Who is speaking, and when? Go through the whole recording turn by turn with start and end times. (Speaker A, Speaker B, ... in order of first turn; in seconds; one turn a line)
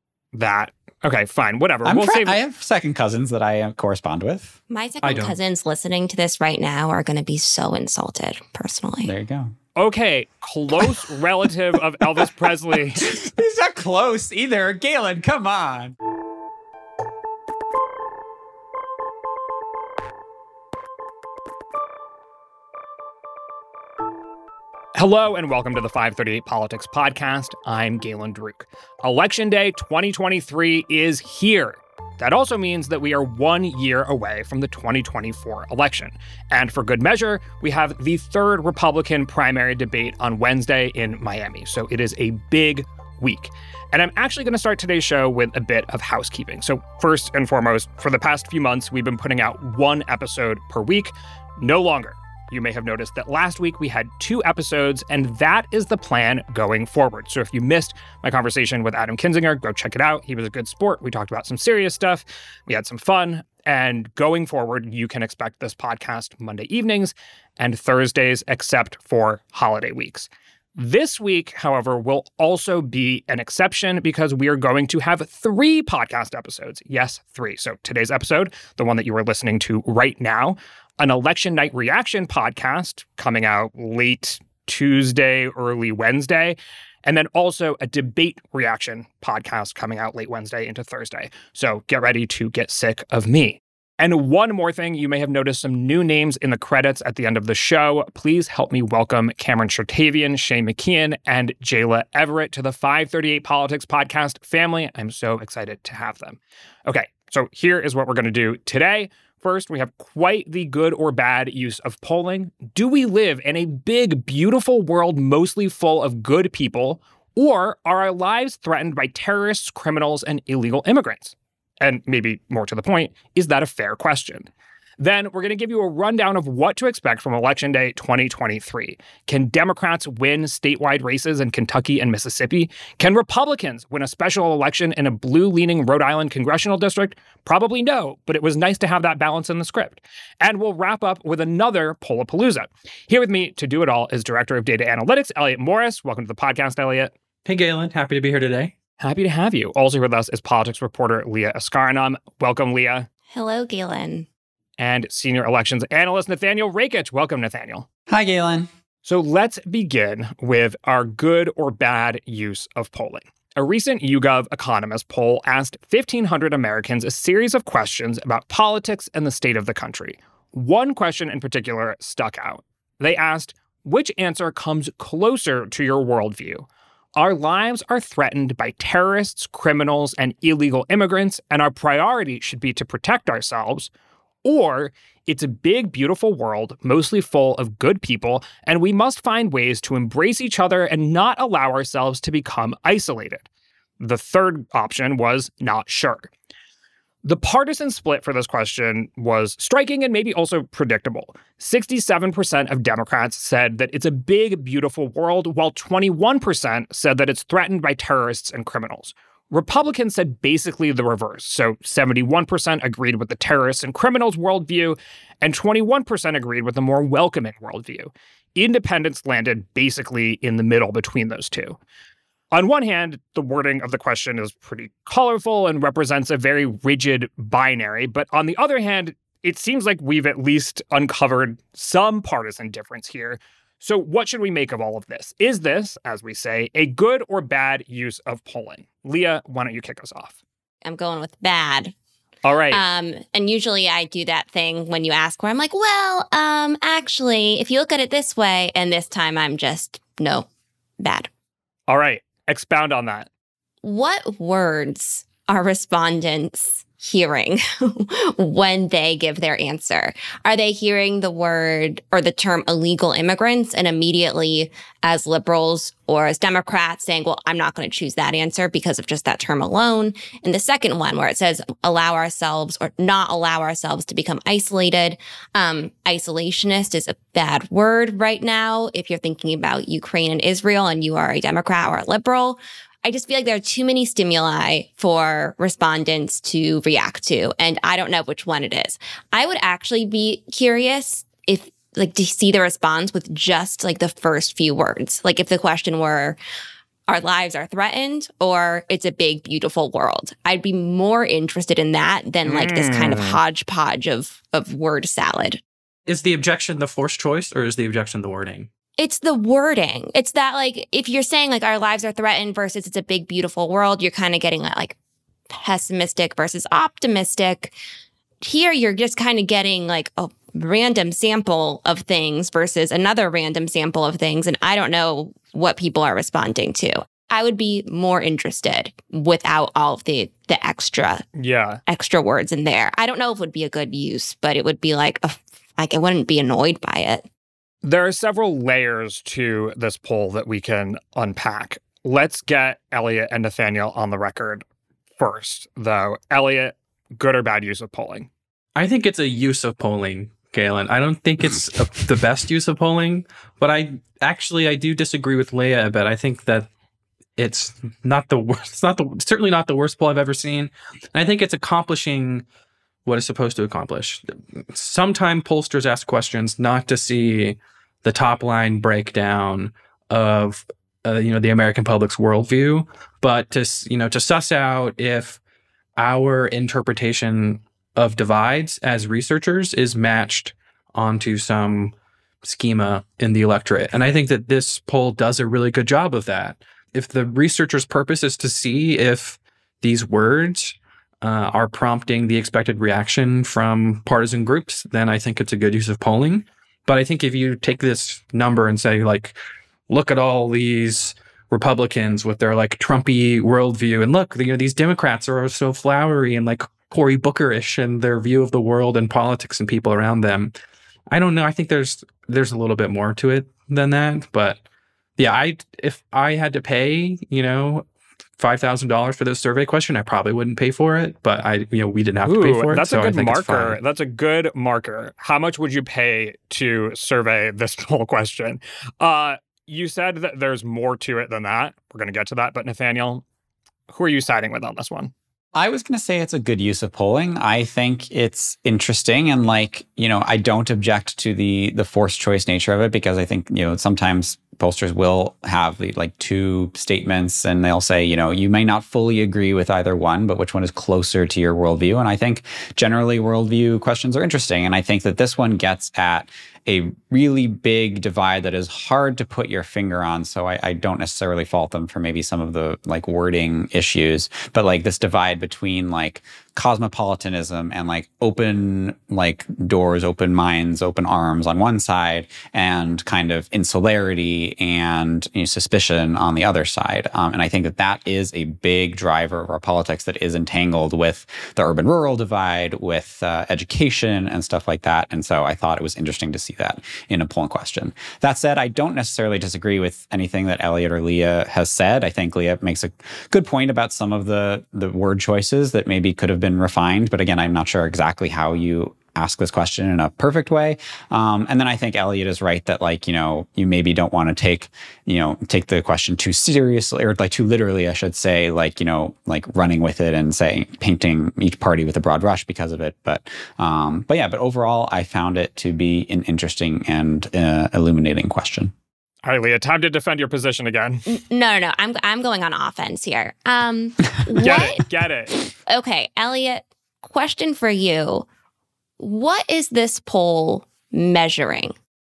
Speaker A: 0.3-2.4
Speaker B: 1.8-4.5
Speaker C: 4.7-9.1
Speaker D: 5.0-5.4
Speaker B: 9.0-9.6
Speaker A: 9.8-13.2
Speaker B: 13.0-16.0
Speaker A: 24.9-147.1
Speaker D: 147.5-148.7
Speaker A: 149.0-153.1
Speaker C: 153.3-154.3
Speaker A: 154.8-157.9
Speaker B: 158.1-158.7
Speaker A: 159.1-183.9
Speaker A: 184.4-193.4
Speaker A: 194.0-196.3
Speaker A: 197.2-221.8
Speaker A: 222.5-240.3
Speaker C: 240.8-241.9
Speaker A: 242.4-242.8
Speaker C: 242.7-250.5
Speaker C: 251.0-251.3
Speaker A: 251.9-253.3
Speaker C: 253.8-296.4
Speaker C: 297.1-305.6
Speaker A: 302.4-303.4
Speaker D: 306.1-308.7
Speaker C: 309.0-315.0
Speaker C: 315.5-317.8
Speaker C: 318.4-331.2
Speaker A: 331.4-331.8
Speaker C: 331.9-337.3
Speaker A: 337.8-344.6
Speaker A: 345.2-348.3
Speaker D: 348.8-356.7
Speaker D: 357.4-362.4
Speaker D: 363.1-375.4
Speaker D: 376.0-399.4
Speaker D: 399.9-410.5
Speaker D: 411.1-414.6
Speaker D: 415.2-417.9
Speaker D: 418.4-423.8
Speaker A: 422.2-433.2
Speaker A: 433.9-435.1
Speaker B: 435.5-518.7
Speaker A: 519.2-521.0
Speaker C: 521.1-524.9
Speaker A: 524.4-525.3
Speaker C: 525.7-528.2
Speaker C: 529.0-531.8